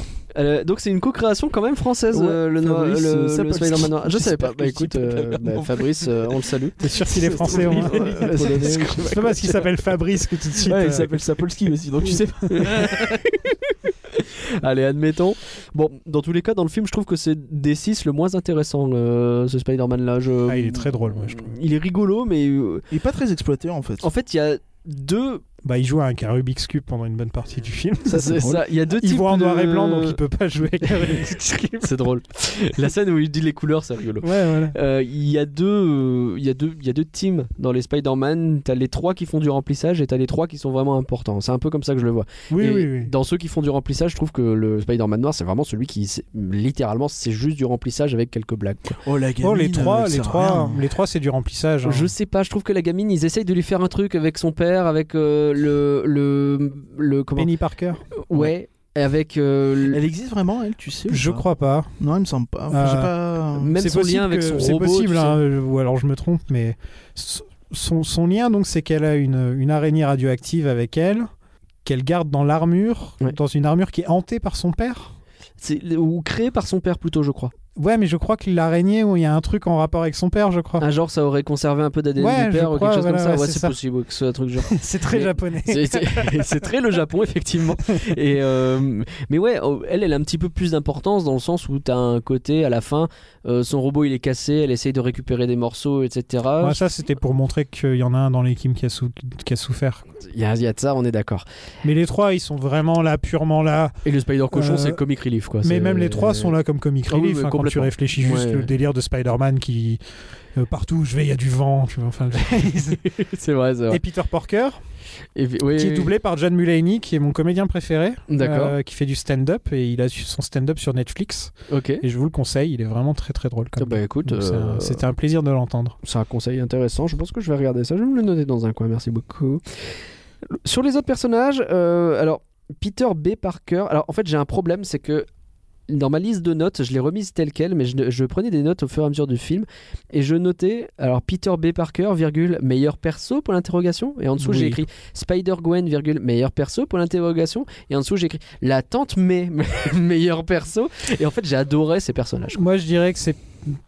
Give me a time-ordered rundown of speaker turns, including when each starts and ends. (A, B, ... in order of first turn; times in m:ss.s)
0:00.3-0:09.6 A
0:02.1-0:09.4 B
0:06.8-0:11.2 C
0:10.6-0:13.2 B
0:12.5-0:22.8 A
0:20.5-0:21.5 C
0:22.9-0:24.0 B
0:24.0-0:25.4 A
0:25.6-0:31.9 C
0:28.1-0:30.2 A
0:28.1-0:28.7 B
0:30.9-0:31.2 A
0:31.8-0:49.0 A
0:34.2-0:34.8 C
0:42.5-0:43.1 C
0:49.0-0:50.8 B
0:49.4-0:52.1 C
0:51.8-0:57.5 A
0:57.4-0:58.0 C
0:58.1-1:00.0 A
0:59.9-1:01.5 B
1:01.1-1:01.9 C
1:02.0-1:03.8 B
1:02.7-1:03.1 C
1:03.6-1:05.4 A
1:03.7-1:11.3 C
1:11.8-1:15.1 C
1:15.6-1:17.5 A
1:17.8-1:20.8 C
1:20.8-1:36.8 A
1:22.2-1:23.8 C
1:24.6-1:26.7 C
1:36.6-1:40.0 C
1:40.2-1:41.4 A
1:41.8-1:43.9 C
1:44.0-1:46.5 A
1:44.5-1:45.0 C
1:45.6-1:50.0 C
1:47.1-1:48.7 A
1:50.5-1:53.0 C
1:52.7-1:54.0 A
1:53.9-1:54.8 C
1:55.3-1:56.1 A
1:55.7-2:06.0 C
1:58.3-1:58.8 A
2:01.7-2:02.0 A
2:03.8-2:05.0 A
2:06.0-2:15.2 A
2:15.9-2:32.6 A
2:24.4-2:24.8 C
2:32.5-2:33.8 C